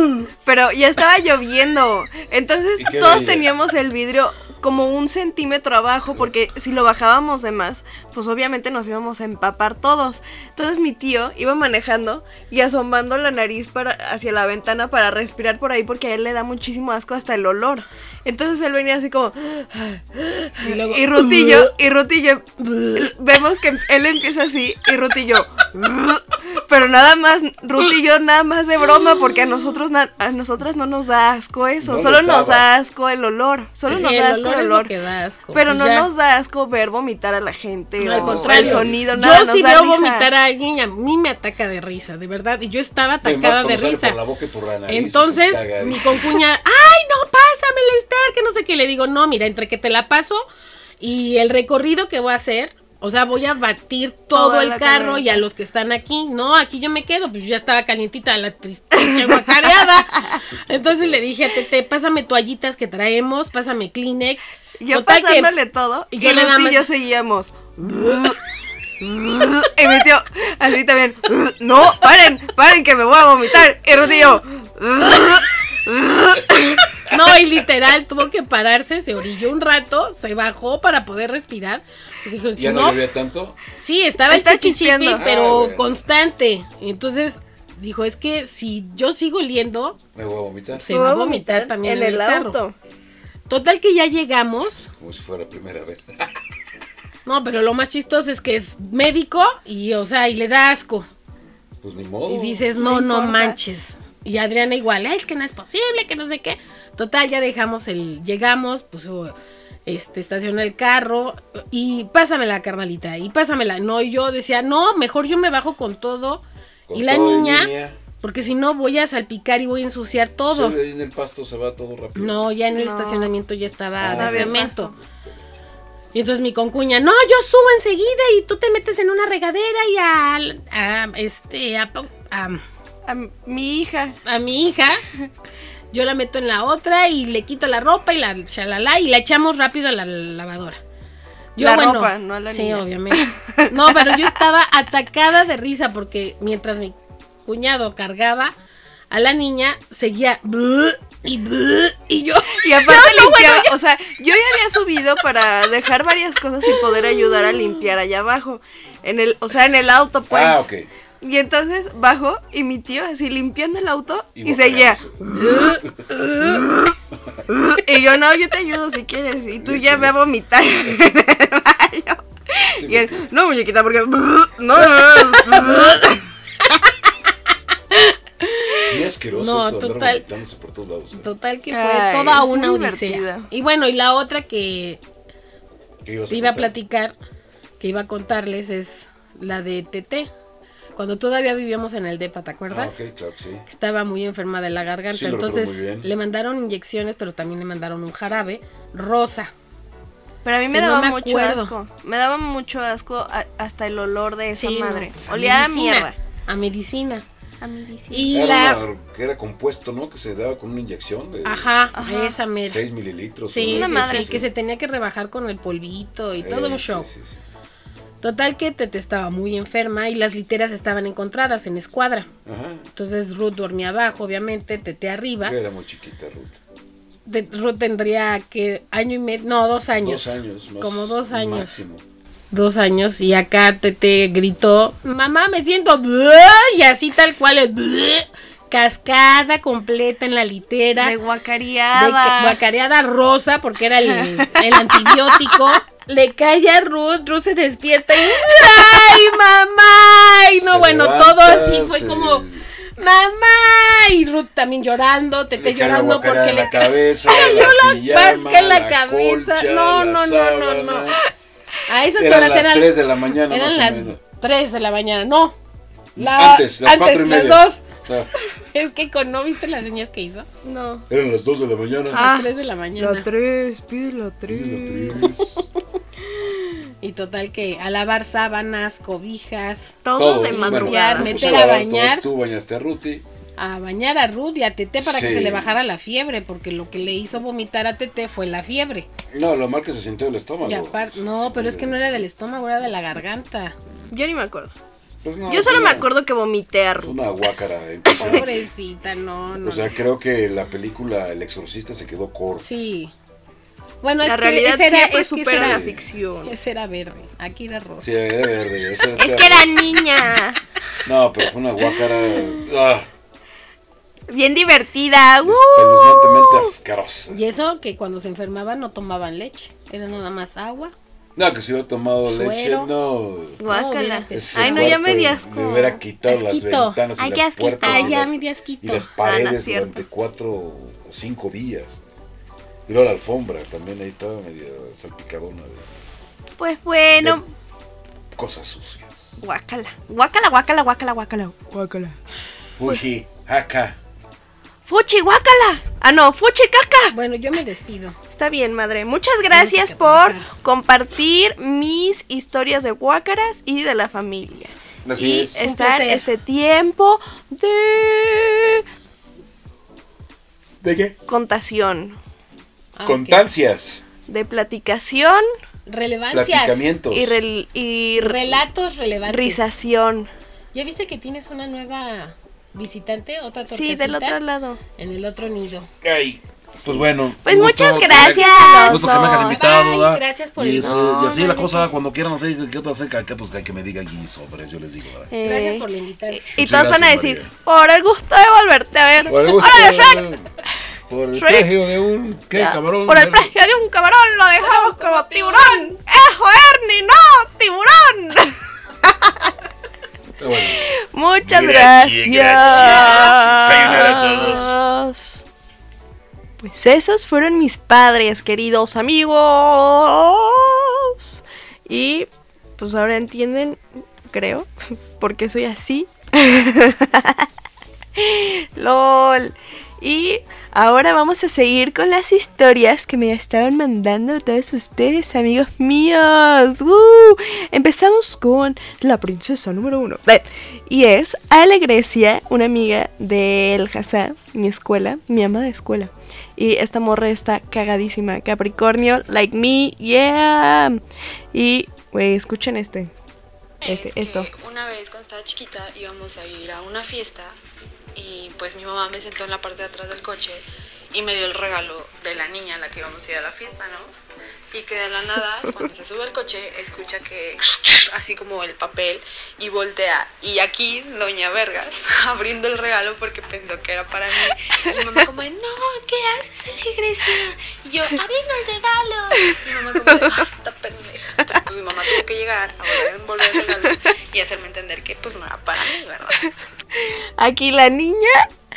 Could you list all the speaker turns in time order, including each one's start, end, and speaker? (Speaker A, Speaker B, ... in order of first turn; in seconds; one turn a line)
Speaker A: 0.4-34.9
Speaker B: 2.8-3.5
Speaker C: 20.6-21.7
Speaker C: 22.6-23.1
Speaker B: 31.8-32.6
Speaker C: 33.9-36.1
Speaker A: 35.5-40.3
Speaker C: 38.0-44.2
Speaker B: 38.1-39.1
Speaker B: 43.2-46.4
Speaker C: 44.9-50.4
Speaker C: 51.0-65.5
Speaker A: 54.3-55.4
Speaker A: 58.9-59.5
Speaker A: 60.1-60.4
Speaker B: 60.8-61.1
Speaker A: 64.8-68.4
Speaker C: 66.1-66.8
Speaker A: 69.0-77.0
Speaker C: 77.1-83.0
Speaker B: 82.6-83.6
Speaker C: 83.8-90.0
Speaker A: 84.3-85.2
Speaker B: 85.2-85.8
Speaker B: 90.1-90.9
Speaker C: 90.7-92.6
Speaker A: 90.9-92.7
Speaker C: 93.5-94.9
Speaker B: 95.0-96.4
Speaker C: 97.2-101.1
Speaker B: 101.8-102.5
Speaker C: 102.3-109.3
Speaker A: 102.3-103.6
Speaker C: 109.8-120.8
Speaker B: 116.9-118.0
Speaker B: 120.5-122.4
Speaker C: 122.2-124.9
Speaker A: 122.7-123.3
Speaker B: 124.0-124.6
Speaker A: 124.1-124.9
Speaker C: 126.1-132.6
Speaker A: 133.1-134.2
Speaker C: 134.2-135.0
Speaker C: 135.9-140.8
Speaker C: 141.6-148.5
Speaker A: 141.6-144.3
Speaker C: 149.1-153.7
Speaker A: 152.6-160.7
Speaker C: 156.7-157.7
Speaker B: 160.3-160.9
Speaker A: 161.2-165.0
Speaker B: 164.3-166.1
Speaker A: 166.3-166.7
Speaker B: 167.2-167.4
Speaker A: 167.5-176.2
Speaker B: 169.6-170.1
Speaker B: 172.7-173.3
Speaker C: 177.9-180.2
Speaker B: 178.9-181.3
Speaker C: 181.1-185.0
Speaker A: 181.7-183.5
Speaker B: 186.0-186.7
Speaker C: 186.3-187.1
Speaker C: 187.8-190.3
Speaker C: 190.9-193.0
Speaker B: 192.7-193.6
Speaker C: 193.7-199.5
Speaker B: 195.1-196.1
Speaker A: 200.4-206.2
Speaker C: 200.7-201.7
Speaker C: 204.6-207.2
Speaker A: 207.6-208.3
Speaker C: 208.1-208.8
Speaker B: 208.3-211.7
Speaker C: 211.4-212.8
Speaker A: 211.9-212.4
Speaker B: 212.6-214.4
Speaker C: 213.5-217.1
Speaker A: 213.7-214.4
Speaker B: 216.4-217.4
Speaker C: 218.2-222.3
Speaker B: 222.4-222.8
Speaker C: 222.9-225.6
Speaker B: 225.4-226.6
Speaker C: 227.2-231.8
Speaker B: 230.0-232.0
Speaker C: 232.5-241.1
Speaker A: 241.0-242.6
Speaker C: 241.9-252.4
Speaker A: 244.1-245.6
Speaker A: 248.3-250.0
Speaker B: 250.6-252.7
Speaker C: 253.0-261.1
Speaker B: 255.5-261.2
Speaker C: 261.9-265.6
Speaker B: 262.2-264.2
Speaker C: 266.1-267.8
Speaker B: 266.1-268.3
Speaker C: 268.4-270.5
Speaker A: 270.6-271.1
Speaker B: 271.1-272.3
Speaker C: 272.1-273.3
Speaker A: 272.1-275.4
Speaker B: 274.5-275.6
Speaker C: 277.0-280.0
Speaker A: 280.0-281.4
Speaker B: 280.1-283.2
Speaker C: 280.5-282.2
Speaker C: 283.6-289.1
Speaker B: 285.0-285.7
Speaker B: 289.3-292.1
Speaker C: 290.6-293.8
Speaker A: 294.1-294.7
Speaker B: 295.2-296.1
Speaker A: 295.5-297.2
Speaker B: 297.0-298.6
Speaker A: 298.2-298.5
Speaker C: 298.2-299.9
Speaker B: 299.6-302.6
Speaker C: 302.6-303.1
Speaker C: 304.0-305.9
Speaker A: 304.2-306.5
Speaker B: 305.5-306.0
Speaker C: 306.4-308.2
Speaker B: 308.0-310.0
Speaker A: 309.2-310.6
Speaker B: 311.0-313.1
Speaker A: 314.3-316.7
Speaker B: 315.4-317.4
Speaker C: 317.3-320.9
Speaker B: 321.4-323.6
Speaker C: 322.2-322.9
Speaker A: 323.6-326.0
Speaker C: 323.6-325.0
Speaker B: 324.3-332.0
Speaker C: 326.2-327.0
Speaker A: 327.2-328.3
Speaker C: 327.8-329.1
Speaker A: 329.2-330.0
Speaker B: 332.9-335.9
Speaker A: 336.6-337.5
Speaker B: 337.1-337.4
Speaker B: 338.3-339.4
Speaker A: 339.4-342.2
Speaker B: 342.8-344.0
Speaker A: 344.9-347.1
Speaker C: 347.1-348.2
Speaker A: 348.3-358.8
Speaker C: 349.5-350.5
Speaker B: 355.0-355.6
Speaker C: 355.6-356.2
Speaker B: 360.8-361.1
Speaker A: 361.3-362.2
Speaker C: 362.9-363.4
Speaker B: 363.0-364.0
Speaker A: 364.3-365.4
Speaker C: 365.9-366.9
Speaker B: 366.3-367.4
Speaker A: 367.1-368.6
Speaker C: 368.2-369.7
Speaker A: 369.3-370.3
Speaker C: 370.7-374.4
Speaker A: 373.7-374.8
Speaker C: 375.0-375.9
Speaker B: 376.0-385.3
Speaker A: 376.8-379.6
Speaker C: 378.1-381.3
Speaker A: 380.8-381.8
Speaker A: 385.3-390.3
Speaker C: 385.4-386.6
Speaker B: 386.6-387.5
Speaker B: 389.3-390.5
Speaker B: 391.1-393.5
Speaker A: 391.4-391.7
Speaker A: 392.5-399.5
Speaker C: 394.6-395.9
Speaker B: 400.4-400.8
Speaker A: 400.6-405.4
Speaker B: 401.4-404.8
Speaker A: 406.6-417.5
Speaker A: 418.1-441.0
Speaker A: 441.5-443.1
Speaker D: 443.8-447.5
Speaker A: 443.9-444.5
Speaker D: 448.1-454.1
Speaker D: 454.7-476.5
Speaker A: 469.4-470.4
Speaker A: 476.9-478.5